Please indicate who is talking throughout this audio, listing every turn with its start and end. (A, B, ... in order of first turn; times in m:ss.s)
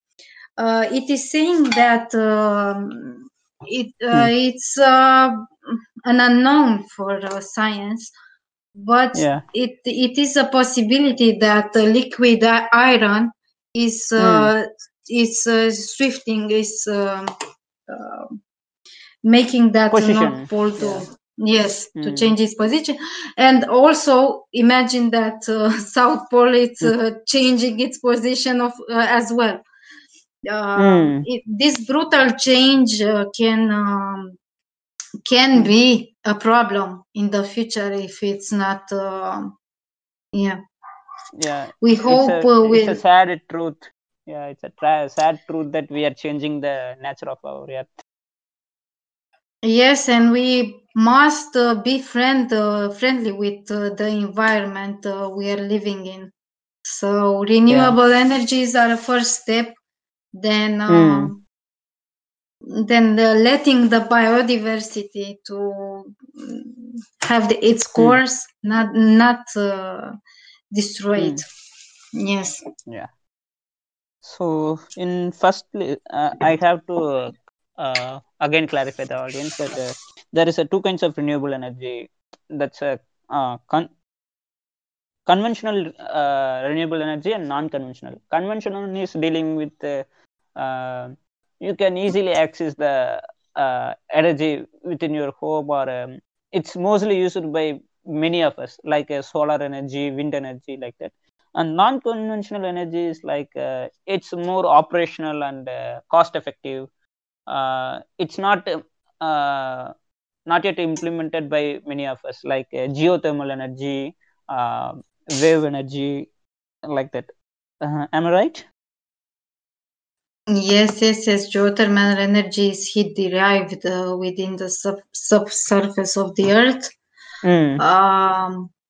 0:00.6-0:08.1 A
0:08.7-0:17.3 A
0:09.1-0:09.4 B
0:14.2-0:14.5 B
0:17.9-0:18.3 A
0:19.2-0:29.6 A
0:19.9-0:21.0 B
0:22.0-0:22.3 B
0:30.5-0:34.4 A
0:30.8-0:31.2 B
0:35.2-0:39.5 A
0:40.3-0:40.6 A
0:41.3-0:47.9 B
0:41.8-0:43.0 A
0:49.6-0:56.3 A
0:56.8-0:59.8 A
0:57.7-0:57.9 B
1:00.3-1:01.4 A
1:00.9-1:01.3 B
1:02.7-1:10.1 A
1:10.7-1:11.4 A
1:11.2-1:11.4 B
1:12.2-1:12.6 A
1:14.2-1:23.9 B
1:25.3-1:46.9 B
1:47.5-1:49.9 B
1:50.5-1:56.3 B
1:56.9-1:57.3 B
1:57.8-1:58.7 B
2:00.5-2:06.9 A
2:07.4-2:07.8 B
2:07.8-2:08.7 A